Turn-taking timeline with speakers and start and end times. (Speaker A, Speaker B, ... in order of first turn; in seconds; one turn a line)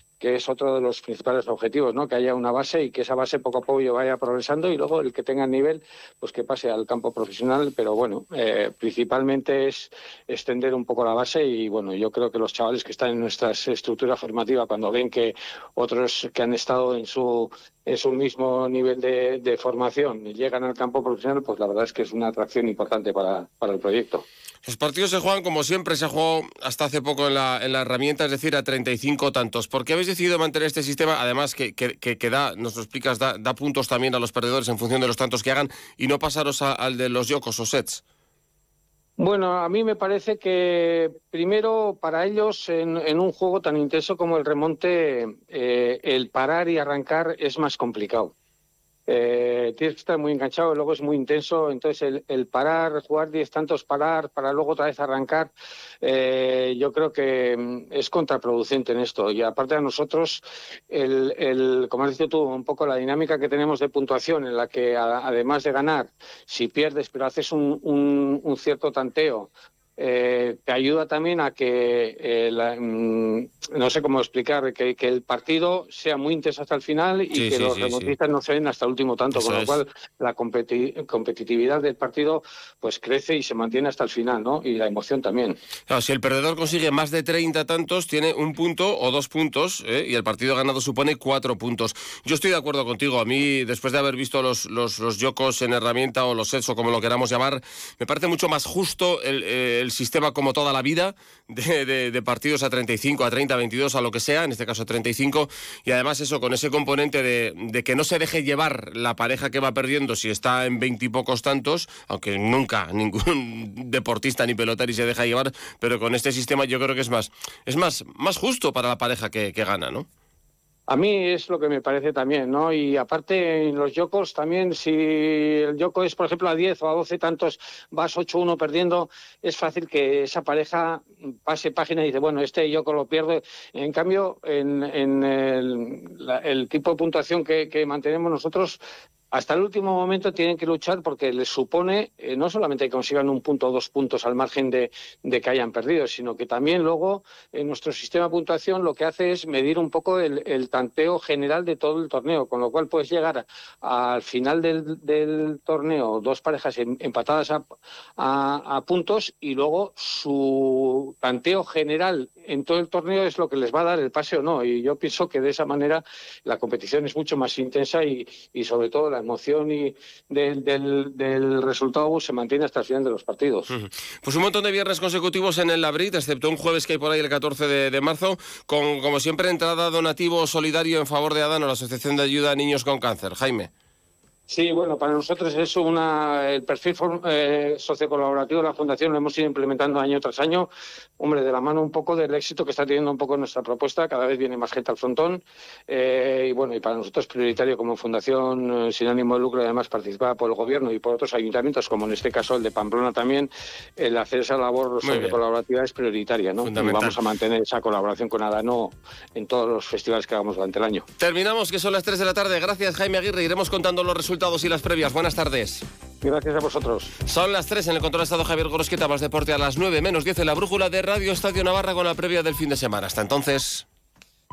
Speaker A: 0.2-24.2
Speaker B: 24.6-38.0
Speaker A: 39.2-48.3
Speaker A: 49.1-85.6
Speaker B: 77.3-78.2
Speaker B: 79.3-79.8
Speaker B: 85.9-120.1
Speaker A: 120.9-138.8
Speaker A: 139.3-157.6
Speaker A: 158.2-173.7
Speaker B: 173.7-183.7
Speaker A: 184.5-211.1
Speaker B: 205.0-205.4
Speaker B: 206.6-207.2
Speaker B: 211.2-215.8
Speaker A: 216.2-217.1
Speaker B: 217.3-223.9